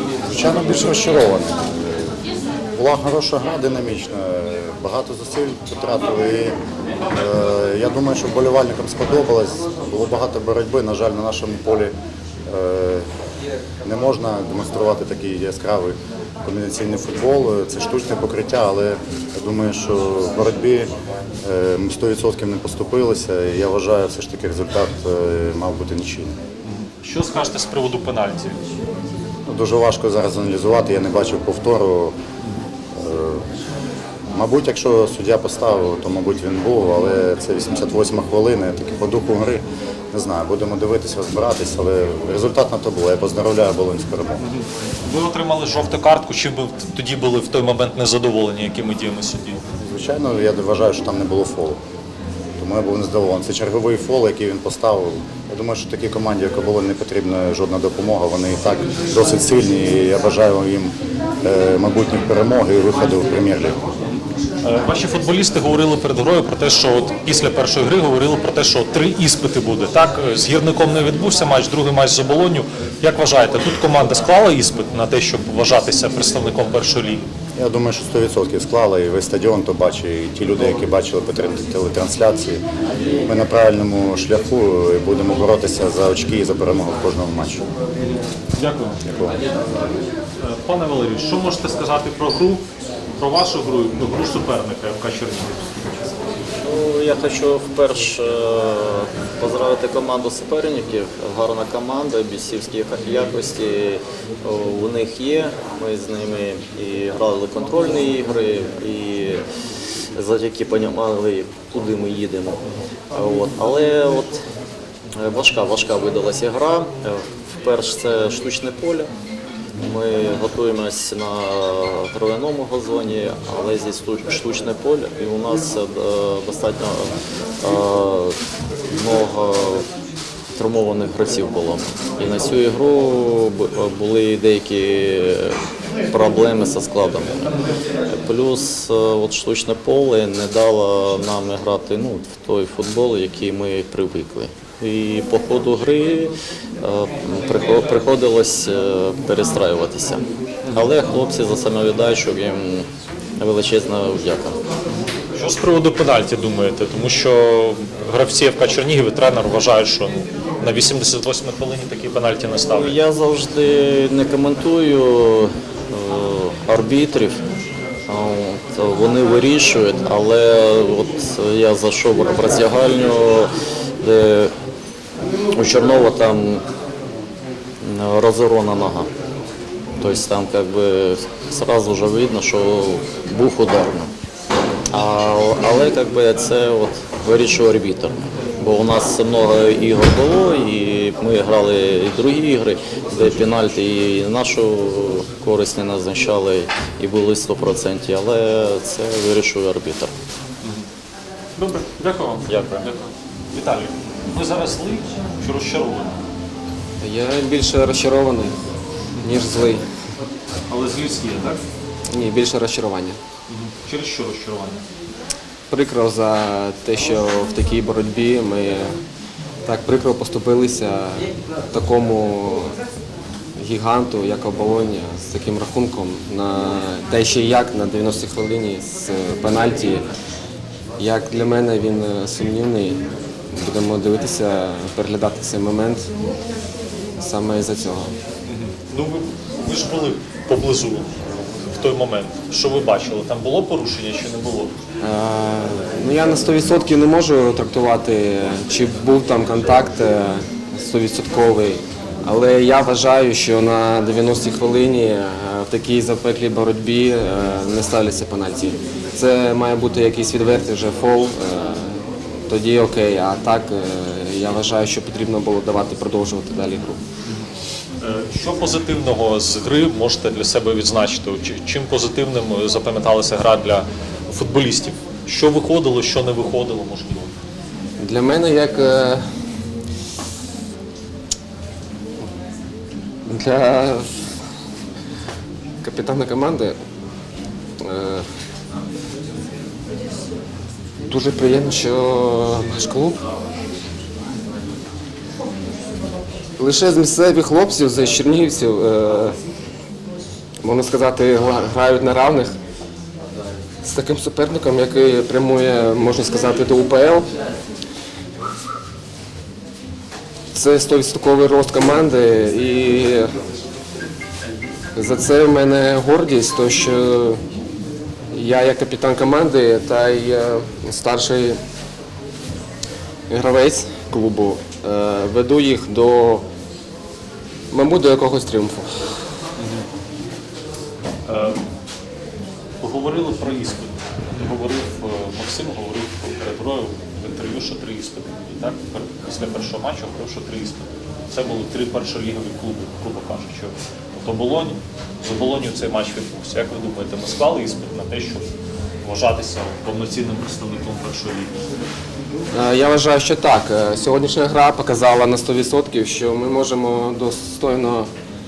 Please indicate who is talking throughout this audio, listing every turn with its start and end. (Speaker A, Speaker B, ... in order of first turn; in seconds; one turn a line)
Speaker A: 0.3-2.2
Speaker A: 2.8-6.6
Speaker A: 7.1-11.9
Speaker A: 12.5-13.1
Speaker A: 13.8-26.4
Speaker B: 26.7-28.6
Speaker A: 29.5-32.2
Speaker A: 32.9-33.5
Speaker A: 34.3-44.4
Speaker B: 44.4-49.6
Speaker A: 49.8-51.8
Speaker A: 52.6-63.8
Speaker B: 64.6-77.2
Speaker A: 77.6-82.6
Speaker A: 83.3-87.6
Speaker B: 88.6-89.0
Speaker A: 89.0-89.4
Speaker B: 90.4-92.7
Speaker B: 93.2-96.2
Speaker C: 96.6-109.4
Speaker C: 110.2-112.6
Speaker C: 113.1-114.4
Speaker C: 115.2-119.1
Speaker C: 119.8-128.4
Speaker C: 128.9-129.8
Speaker C: 130.5-135.6
Speaker C: 136.1-137.5
Speaker C: 138.1-154.6
Speaker B: 155.3-163.0
Speaker C: 162.7-167.4
Speaker C: 168.1-174.5
Speaker C: 175.6-176.6
Speaker C: 177.8-179.1
Speaker C: 180.0-184.1
Speaker C: 184.9-200.1
Speaker B: 201.6-206.2
Speaker C: 202.5-202.9
Speaker D: 207.0-208.6
Speaker D: 209.2-209.8
Speaker B: 210.7-211.6
Speaker D: 212.1-213.2
Speaker B: 213.5-214.8
Speaker D: 215.7-219.0
Speaker D: 219.6-222.8
Speaker D: 223.6-230.1
Speaker D: 231.0-236.1
Speaker D: 237.2-238.2
Speaker B: 238.5-244.8
Speaker D: 245.0-267.0
Speaker B: 268.0-277.3
Speaker D: 278.0-279.2
Speaker D: 283.2-284.2
Speaker D: 285.8-286.8
Speaker D: 287.8-288.3
Speaker D: 291.1-293.2
Speaker D: 296.6-299.4
Speaker D: 300.6-302.6
Speaker D: 303.8-307.3
Speaker D: 310.5-313.3
Speaker D: 314.9-317.4
Speaker D: 318.3-321.6
Speaker D: 323.3-326.5
Speaker D: 327.7-329.2
Speaker B: 329.6-329.9
Speaker B: 331.2-331.6
Speaker B: 332.8-348.5
Speaker B: 349.0-351.5
Speaker D: 352.5-358.1